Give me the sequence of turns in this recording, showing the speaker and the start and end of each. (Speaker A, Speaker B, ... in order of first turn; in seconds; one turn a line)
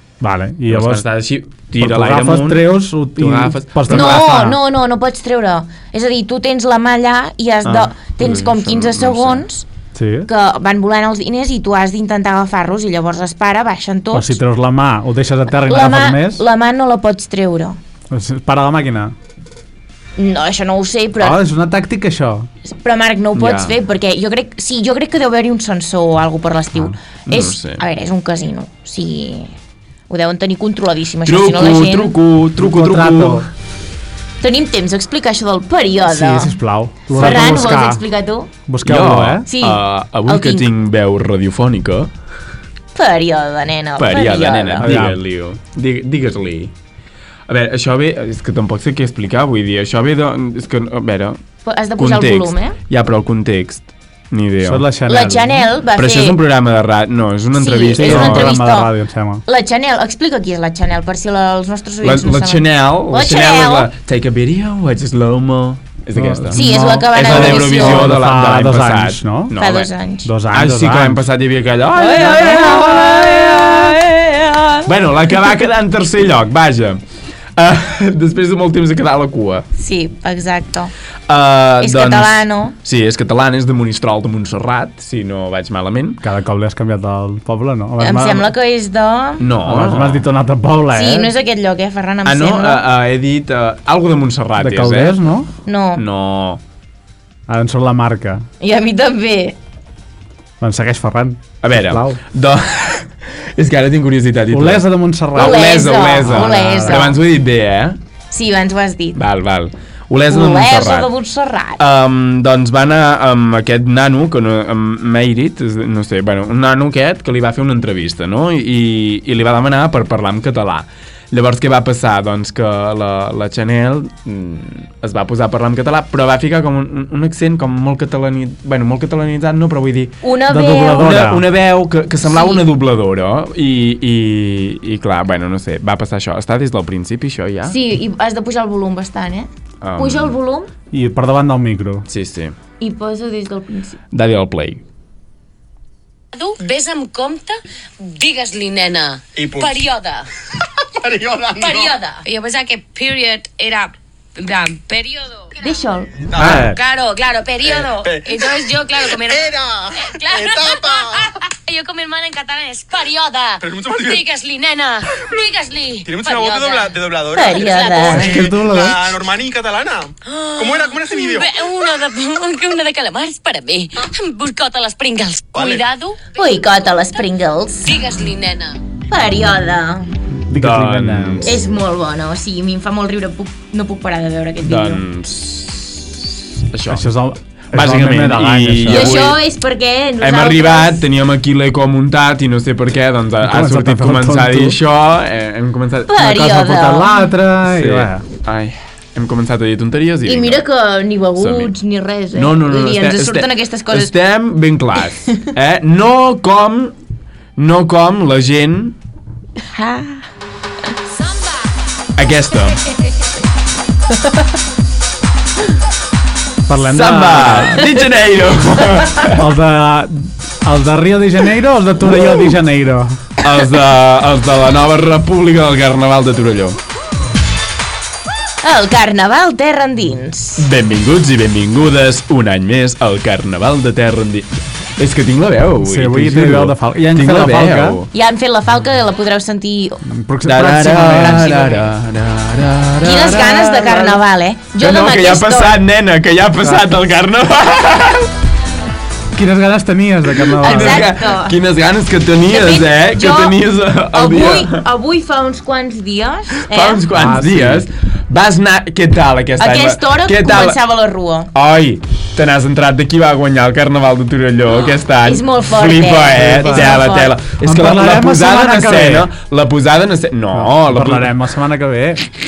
Speaker A: 0.2-1.0
Speaker B: 0.7-4.4
Speaker A: 1.8-4.6
Speaker C: 3.9-9.7
Speaker B: 7.6-9.4
Speaker A: 9.9-10.3
Speaker C: 10.2-14.4
Speaker A: 14.1-16.4
Speaker C: 15.7-17.8
Speaker A: 18.1-19.1
Speaker C: 20.2-21.4
Speaker A: 21.2-22.5
Speaker C: 22.6-29.5
Speaker B: 23.3-23.8
Speaker B: 27.3-27.8
Speaker C: 30.1-32.1
Speaker B: 31.2-33.5
Speaker A: 32.6-33.5
Speaker C: 34.4-36.5
Speaker A: 36.1-38.0
Speaker C: 37.1-38.5
Speaker B: 37.1-37.6
Speaker A: 38.7-39.5
Speaker B: 38.8-42.1
Speaker C: 39.5-40.7
Speaker C: 42.9-44.9
Speaker B: 44.0-46.7
Speaker A: 44.8-45.2
Speaker B: 47.5-51.4
Speaker C: 51.6-52.8
Speaker B: 52.0-54.9
Speaker A: 54.6-55.6
Speaker C: 55.1-56.4
Speaker B: 55.9-58.5
Speaker C: 57.5-58.9
Speaker A: 58.0-59.4
Speaker C: 59.5-63.9
Speaker B: 62.0-69.9
Speaker A: 66.1-69.5
Speaker C: 66.5-68.1
Speaker C: 69.6-70.3
Speaker A: 70.2-71.2
Speaker B: 70.5-74.0
Speaker C: 71.9-74.9
Speaker B: 74.8-77.0
Speaker B: 77.6-79.7
Speaker C: 79.8-80.9
Speaker B: 81.3-86.2
Speaker C: 81.8-82.8
Speaker A: 86.2-88.5
Speaker C: 88.0-89.5
Speaker B: 89.4-90.2
Speaker A: 89.6-91.3
Speaker C: 90.9-92.8
Speaker B: 92.2-95.2
Speaker A: 94.6-95.5
Speaker C: 95.7-96.0
Speaker B: 95.9-96.6
Speaker A: 97.5-98.5
Speaker C: 98.6-99.5
Speaker A: 100.6-102.2
Speaker B: 101.6-108.0
Speaker A: 104.5-107.1
Speaker C: 105.3-107.2
Speaker C: 108.3-109.2
Speaker B: 109.1-111.1
Speaker C: 110.3-111.8
Speaker B: 111.8-130.2
Speaker C: 130.2-131.1
Speaker A: 130.5-131.4
Speaker B: 130.8-137.8
Speaker C: 132.2-132.6
Speaker C: 137.7-140.7
Speaker B: 139.8-140.3
Speaker A: 140.9-142.1
Speaker B: 142.1-142.5
Speaker C: 142.8-144.0
Speaker B: 144.1-144.8
Speaker D: 146.3-150.3
Speaker E: 149.3-149.8
Speaker E: 150.9-151.9
Speaker D: 151.6-155.5
Speaker C: 151.6-152.2
Speaker C: 155.5-156.6
Speaker E: 156.3-156.7
Speaker A: 156.3-156.8
Speaker D: 156.6-159.5
Speaker E: 157.6-161.3
Speaker C: 158.2-158.7
Speaker D: 160.1-166.9
Speaker E: 163.6-164.2
Speaker E: 166.1-171.7
Speaker C: 167.3-168.4
Speaker D: 167.6-168.0
Speaker A: 168.0-169.2
Speaker D: 170.3-176.2
Speaker E: 175.5-175.8
Speaker C: 176.2-178.2
Speaker D: 177.9-178.8
Speaker C: 178.9-180.1
Speaker A: 180.5-181.5
Speaker B: 180.5-181.6
Speaker C: 181.4-185.0
Speaker B: 184.6-187.1
Speaker A: 186.9-189.3
Speaker B: 187.7-189.4
Speaker C: 188.9-191.1
Speaker B: 190.2-196.2
Speaker A: 193.4-194.8
Speaker C: 196.1-197.3
Speaker A: 196.2-198.2
Speaker B: 197.7-200.7
Speaker C: 200.2-204.1
Speaker B: 201.4-201.7
Speaker B: 202.3-206.9
Speaker B: 207.6-209.0
Speaker C: 209.6-210.3
Speaker B: 212.2-212.8
Speaker A: 216.7-217.9
Speaker B: 216.9-219.4
Speaker A: 219.3-223.2
Speaker B: 223.4-226.8
Speaker C: 228.6-230.6
Speaker B: 230.6-238.1
Speaker A: 235.8-238.0
Speaker C: 238.1-240.0
Speaker A: 240.0-241.5
Speaker B: 240.4-244.2
Speaker C: 241.1-241.9
Speaker C: 243.0-245.8
Speaker B: 244.8-248.3
Speaker A: 249.3-251.1
Speaker B: 250.5-254.8
Speaker C: 250.6-251.5
Speaker C: 252.5-253.6
Speaker C: 254.1-257.0
Speaker B: 256.7-260.8
Speaker A: 257.1-257.9
Speaker C: 259.6-261.5
Speaker B: 261.5-271.3
Speaker C: 265.2-267.3
Speaker A: 266.4-267.1
Speaker A: 267.6-269.3
Speaker A: 270.5-272.3